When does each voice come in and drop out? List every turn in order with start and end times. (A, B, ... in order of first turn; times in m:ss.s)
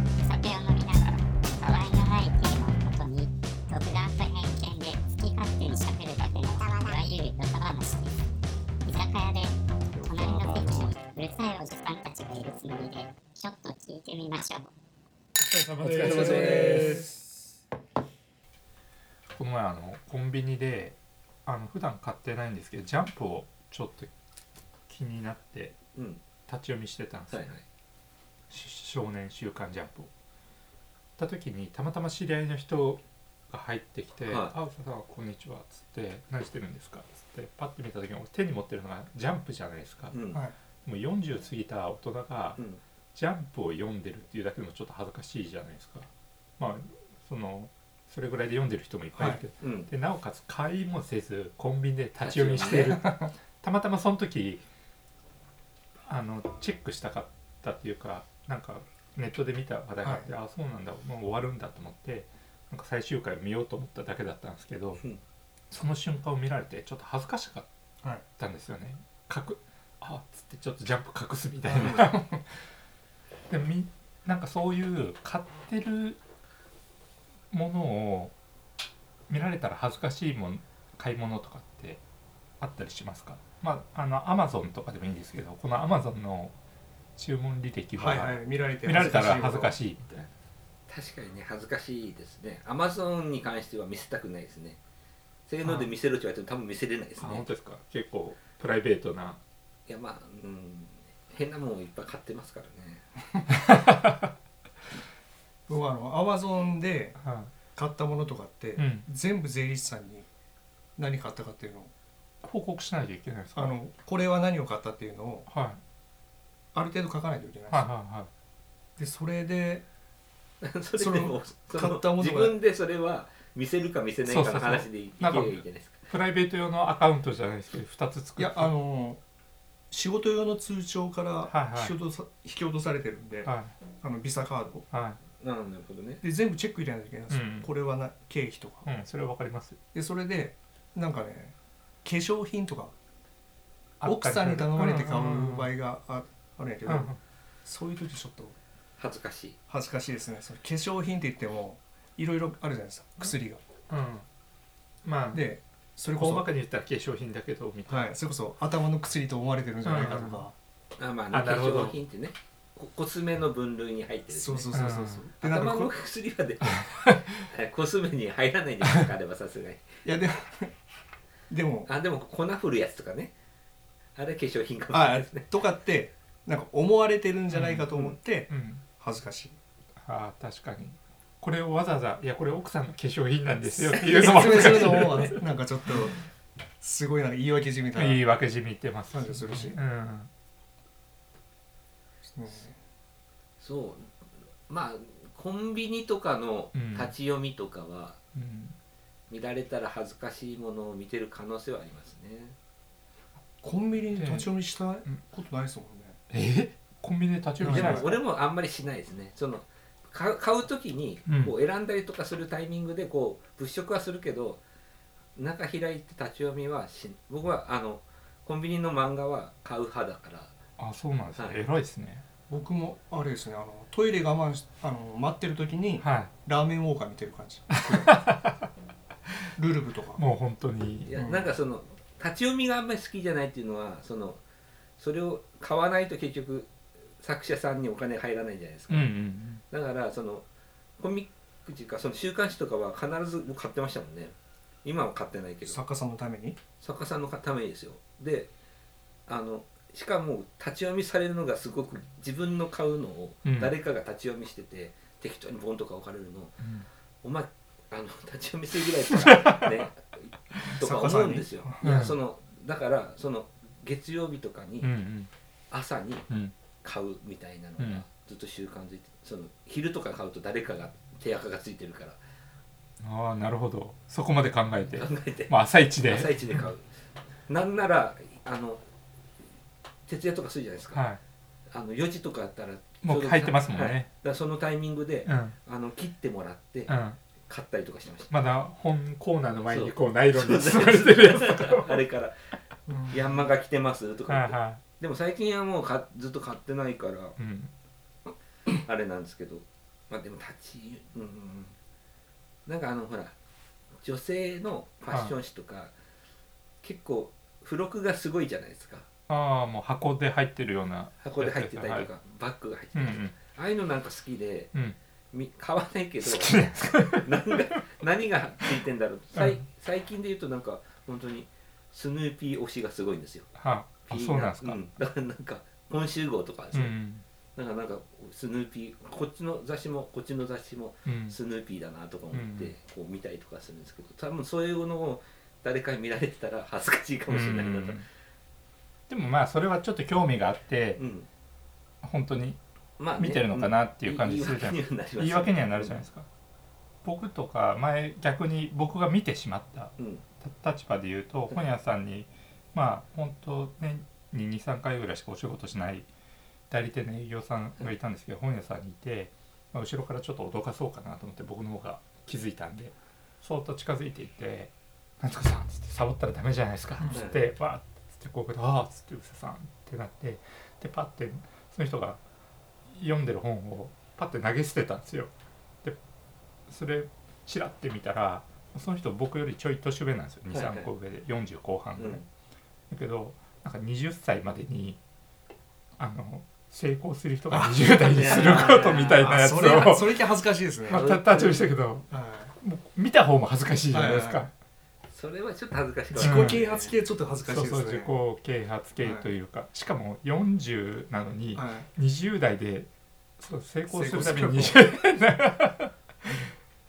0:00.2-0:08.2 A
0:08.8-0:14.7 A
0:15.4-0:17.1 B
0:15.8-0:17.4 C
0:16.0-0:16.8 D
0:19.4-0:24.1 B
0:24.9-0:25.8 B
0:26.0-0:26.2 D
0:26.5-0:27.4 B
0:27.3-0:27.6 D
0:28.5-0:30.1 B
0:31.2-0:40.2 B
0:34.3-0:34.5 D
0:40.1-0:40.4 D
0:40.8-0:42.6 B
0:43.1-0:54.6 B
0:49.1-0:49.4 C
0:49.6-0:49.9 D
0:52.2-0:53.0 D
0:52.6-0:52.9 C
0:56.1-1:05.0 B
1:00.0-1:00.3 C
1:05.7-1:07.7 B
1:08.4-1:12.5 B
1:11.6-1:12.1 C
1:13.5-1:16.2 B
1:17.5-1:18.3 B
1:19.3-1:22.0 B
1:22.6-1:26.5 B
1:27.2-1:30.3 B
1:28.0-1:29.7 C
1:30.9-1:34.8 D
1:35.5-1:37.5 D
1:37.2-1:39.4 B
1:39.9-1:43.0 D
1:43.5-1:44.3 B
1:45.7-1:47.2 C
1:47.2-1:47.5 B
1:47.7-1:50.3 C
1:48.8-1:49.1 B
1:51.0-1:51.9 C
1:52.4-1:53.8 B
1:53.6-1:55.5 C
1:55.5-1:55.8 B
1:56.7-1:57.9 C
1:57.7-1:58.3 B
1:59.0-1:59.8 C
2:00.6-2:06.0 D
2:01.0-2:02.5 C
2:04.2-2:08.7 B
2:08.4-2:09.2 C
2:09.9-2:14.8 C
2:11.5-2:12.0 B
2:13.4-2:13.7 B
2:14.9-2:15.2 B
2:15.4-2:16.2 D
2:16.2-2:18.8 C
2:17.3-2:17.7 B
2:18.8-2:19.8 B
2:19.9-2:22.9 C
2:24.0-2:25.7 B
2:24.0-2:27.1 C
2:26.8-2:27.2 B
2:27.6-2:28.6 C
2:29.0-2:29.6 D
2:29.7-2:33.6 C
2:33.9-2:34.2 B
2:35.0-2:35.4 B
2:35.3-2:36.4 C
2:36.1-2:38.1 B
2:37.9-2:40.5 C
2:39.8-2:40.4 B
2:41.0-2:44.8 D
2:41.3-2:42.0 B
2:44.3-2:45.9 C
2:44.7-2:45.2 B
2:45.4-2:49.9 D
2:46.6-2:47.4 B
2:50.0-2:50.7 C
2:51.5-2:51.9 C
2:51.9-2:53.3 D
2:54.2-2:55.5 D
2:54.9-2:59.6 C
2:57.5-2:57.9 B
2:58.5-2:58.8 B
3:00.0-3:05.4 B
3:03.7-3:06.2 C
3:06.8-3:08.2 C
3:08.0-3:10.3 B
3:09.1-3:09.8 C
3:12.3-3:12.8 C
3:13.6-3:14.1 D
3:14.7-3:18.2 D
3:16.7-3:17.1 B
3:18.3-3:18.8 B
3:19.3-3:22.6 D
3:23.6-3:26.2 C
3:24.1-3:24.5 B
3:26.3-3:28.2 B
3:27.6-3:28.1 C
3:27.6-3:34.6 D
3:31.2-3:31.5 B
3:35.4-3:40.5 D
3:40.8-3:42.2 B
3:42.5-3:48.2 C
3:46.0-3:46.3 B
3:47.7-3:48.7 B
3:49.6-3:50.2 C
3:50.2-3:51.1 B
3:51.0-3:54.4 D
3:51.1-3:51.5 C
3:55.0-3:59.1 D
3:58.9-3:59.6 B
3:59.7-4:00.4 D
4:01.0-4:05.8 D
4:05.7-4:06.6 C
4:06.8-4:08.5 D
4:09.3-4:16.6 D
4:13.4-4:13.7 B
4:16.6-4:16.9 B
4:17.2-4:24.9 D
4:19.1-4:19.8 B
4:20.8-4:21.8 C
4:21.8-4:22.2 B
4:24.8-4:25.3 B
4:25.7-4:26.3 D
4:26.8-4:32.2 D
4:27.8-4:28.0 B
4:33.0-4:36.7 B
4:34.8-4:36.9 D
4:37.5-4:38.8 D
4:40.1-4:41.0 D
4:40.9-4:41.2 B
4:41.7-4:46.9 D
4:43.0-4:44.1 B
4:45.2-4:45.6 B
4:46.9-4:47.2 B
4:47.5-4:48.3 D
4:48.3-4:52.0 B
4:49.7-4:52.4 D
4:52.9-4:53.3 C
4:53.1-4:57.4 D
4:54.3-4:54.8 B
4:57.4-4:57.7 B
4:58.7-5:01.8 D
5:02.7-5:03.4 D
5:04.0-5:05.9 D
5:06.8-5:09.1 D
5:09.3-5:12.1 B
5:11.2-5:14.7 D
5:12.9-5:13.3 B
5:15.3-5:23.5 D
5:16.2-5:17.5 B
5:19.4-5:19.6 B
5:23.6-5:24.8 B
5:24.1-5:26.9 D
5:26.7-5:27.2 B
5:27.6-5:38.0 D
5:31.0-5:31.4 B
5:32.3-5:32.7 B
5:37.3-5:38.0 B
5:39.1-5:41.0 B
5:41.0-5:41.3 D
5:42.0-5:42.6 B
5:43.0-5:46.0 D
5:43.2-5:46.2 B
5:47.0-5:56.1 B
5:50.0-5:50.2 D
5:56.7-6:12.2 B
6:07.1-6:07.4 D
6:12.9-6:15.3 B
6:16.7-6:22.2 B
6:20.5-6:20.9 D
6:22.0-6:22.2 D
6:22.9-6:25.0 B
6:26.0-6:30.3 B
6:27.5-6:31.1 C
6:28.1-6:29.3 D
6:30.9-6:32.1 B
6:30.9-6:31.6 D
6:32.1-6:32.5 C
6:32.6-6:34.5 B
6:33.9-6:34.5 C
6:35.1-6:36.9 D
6:36.1-6:38.2 C
6:36.2-6:36.7 B
6:37.4-6:42.9 B
6:39.0-6:39.3 C
6:41.6-6:41.9 C
6:43.4-6:46.4 B
6:43.9-6:44.8 C